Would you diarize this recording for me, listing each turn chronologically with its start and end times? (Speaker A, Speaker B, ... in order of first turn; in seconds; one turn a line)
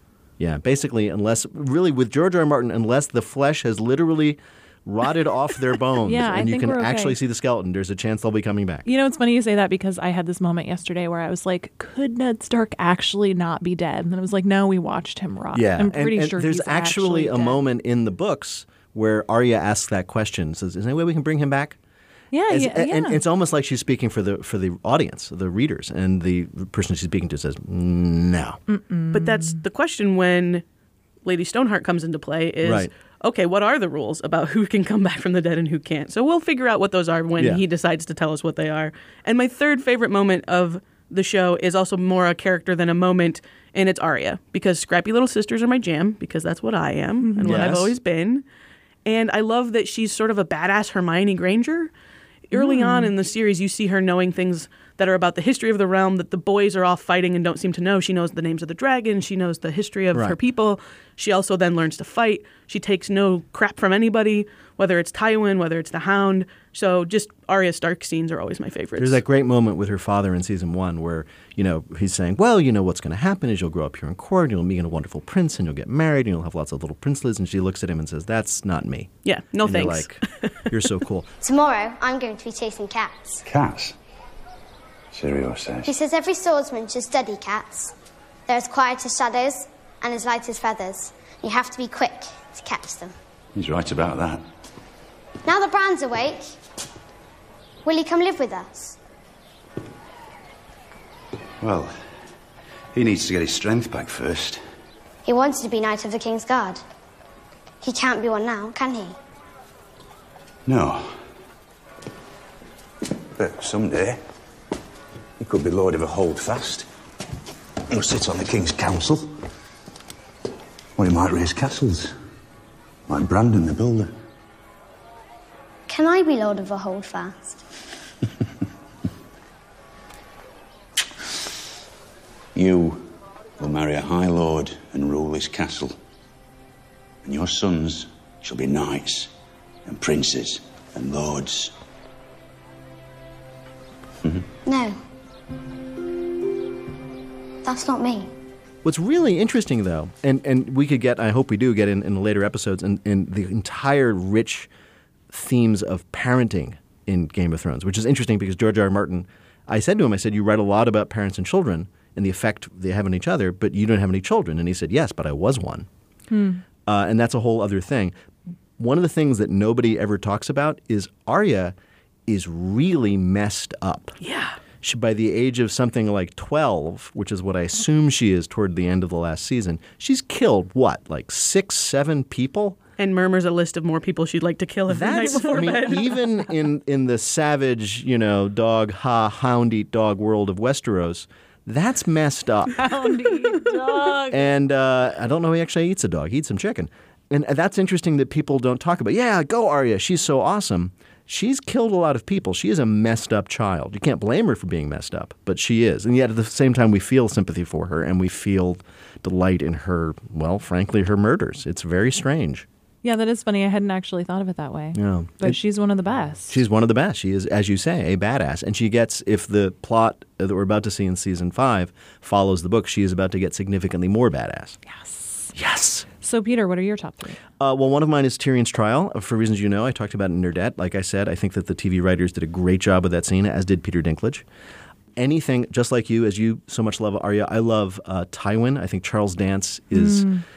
Speaker A: 0.4-8.8
Speaker B: 6.0-7.2
Speaker B: 8.8-17.6
Speaker A: 15.5-21.8
Speaker B: 22.3-23.2
Speaker A: 22.5-28.6
Speaker B: 28.7-29.6
Speaker C: 29.1-30.6
Speaker C: 31.2-48.4
Speaker A: 32.6-32.9
Speaker B: 47.2-47.7
Speaker A: 47.4-47.9
Speaker C: 49.0-51.9
Speaker C: 52.5-69.2
Speaker B: 52.5-53.1
Speaker A: 69.0-79.1
Speaker C: 79.2-80.7
Speaker A: 79.6-81.3
Speaker D: 81.4-83.4
Speaker E: 83.4-83.9
Speaker E: 85.1-85.9
Speaker D: 85.8-87.9
Speaker D: 88.5-93.1
Speaker E: 93.5-94.4
Speaker D: 95.4-96.5
Speaker D: 97.8-99.0
Speaker E: 101.6-102.0
Speaker E: 102.9-104.6
Speaker D: 105.2-106.8
Speaker D: 107.8-109.1
Speaker E: 110.7-111.2
Speaker E: 113.3-114.2
Speaker E: 115.4-116.8
Speaker E: 117.9-119.2
Speaker E: 121.0-122.1
Speaker E: 123.1-124.1
Speaker D: 125.9-127.6
Speaker E: 132.5-135.9
Speaker E: 137.2-139.3
Speaker E: 139.8-141.7
Speaker D: 144.7-145.0
Speaker D: 147.6-148.3
Speaker A: 148.8-154.7
Speaker A: 155.3-165.9
Speaker B: 166.3-166.6
Speaker A: 166.8-168.1
Speaker A: 168.8-171.8
Speaker A: 172.3-174.2
Speaker C: 174.2-174.6
Speaker A: 174.8-182.8
Speaker C: 183.0-186.1
Speaker A: 184.9-192.8
Speaker B: 185.1-186.2
Speaker B: 192.8-194.5
Speaker A: 194.3-212.7
Speaker B: 213.0-216.6
Speaker A: 214.9-215.6
Speaker A: 216.5-224.8
Speaker B: 224.9-225.5
Speaker A: 225.5-226.1
Speaker B: 226.2-227.4
Speaker A: 227.6-234.4
Speaker A: 235.2-240.3
Speaker B: 239.9-240.4